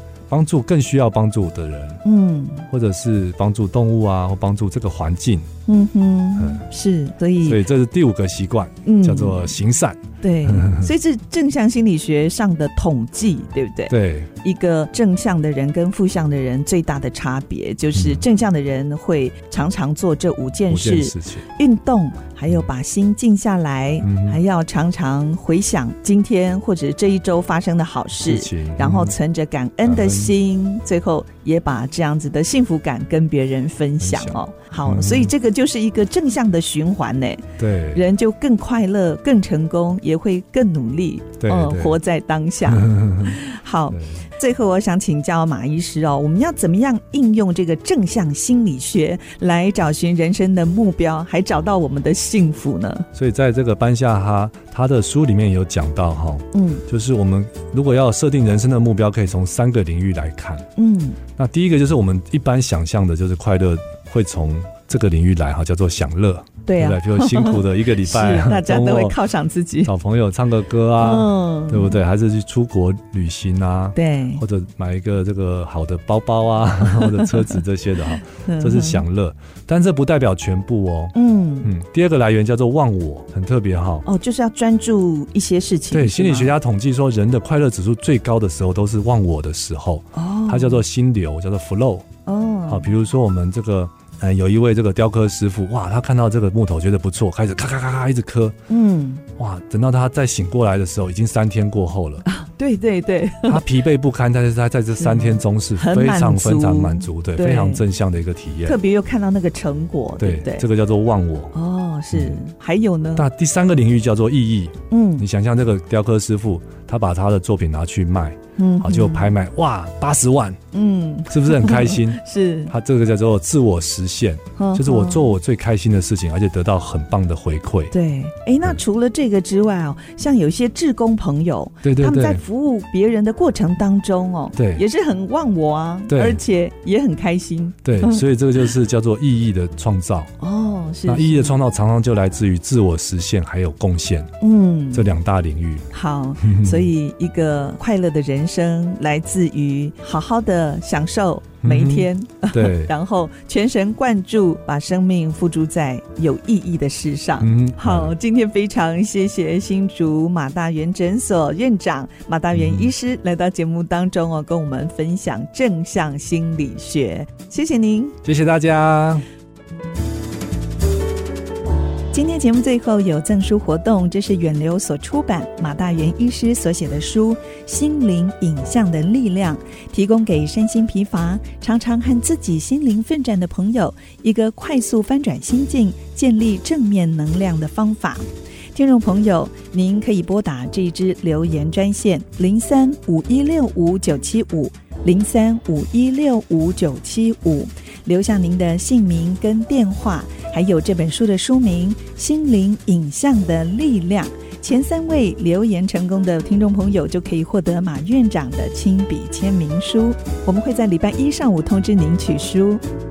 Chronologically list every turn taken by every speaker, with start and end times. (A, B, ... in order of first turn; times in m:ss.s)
0:00.3-0:02.0 A
0:02.0-0:02.7 B
0:02.7-0:05.5 A
0:05.7-0:07.6 B
0:06.4-0:06.6 A
0:07.4-0:10.9 A
0:08.8-0:09.5 B
0:10.2-0:53.1 B
0:13.9-0:14.3 A
0:18.0-0:18.2 A
0:20.7-0:21.5 A
0:24.0-0:24.4 A
0:28.2-0:29.2 A
0:29.8-0:30.3 A
0:34.0-0:35.3 A
0:37.6-0:38.0 A
0:41.4-0:42.0 A
0:42.6-0:43.4 A
0:43.9-0:44.2 A
0:53.1-1:00.7 A
0:56.5-0:56.8 B
1:00.8-1:01.2 B
1:01.4-1:09.2 A
1:06.7-1:09.9 B
1:09.8-1:24.1 A
1:11.0-1:12.0 B
1:14.0-1:14.4 B
1:16.8-1:17.6 B
1:18.3-1:19.0 B
1:21.1-1:21.7 B
1:24.0-1:26.5 B
1:25.9-1:32.1 A
1:30.2-1:30.8 B
1:32.3-1:32.9 B
1:32.7-1:38.6 A
1:38.7-1:39.2 B
1:39.4-1:42.2 A
1:42.3-1:43.6 B
1:43.5-1:48.8 A
1:45.0-1:47.8 B
1:48.6-1:50.6 B
1:50.2-1:51.5 A
1:51.5-1:53.3 B
1:52.1-1:52.4 A
1:53.2-2:00.6 A
1:54.9-1:55.3 B
1:58.6-1:59.4 B
2:00.7-2:02.7 B
2:01.3-2:07.9 A
2:04.6-2:05.4 B
2:07.9-2:18.2 B
2:11.8-2:12.4 A
2:14.6-2:14.8 A
2:16.1-2:16.4 A
2:17.8-2:20.3 A
2:20.4-2:21.6 B
2:21.1-2:24.3 A
2:24.4-2:25.2 B
2:24.9-2:25.9 A
2:25.9-2:48.2 B
2:26.4-2:26.9 A
2:31.6-2:32.9 A
2:37.4-2:38.1 A
2:42.5-2:42.9 A
2:48.2-2:49.2 A
2:52.1-3:32.8 B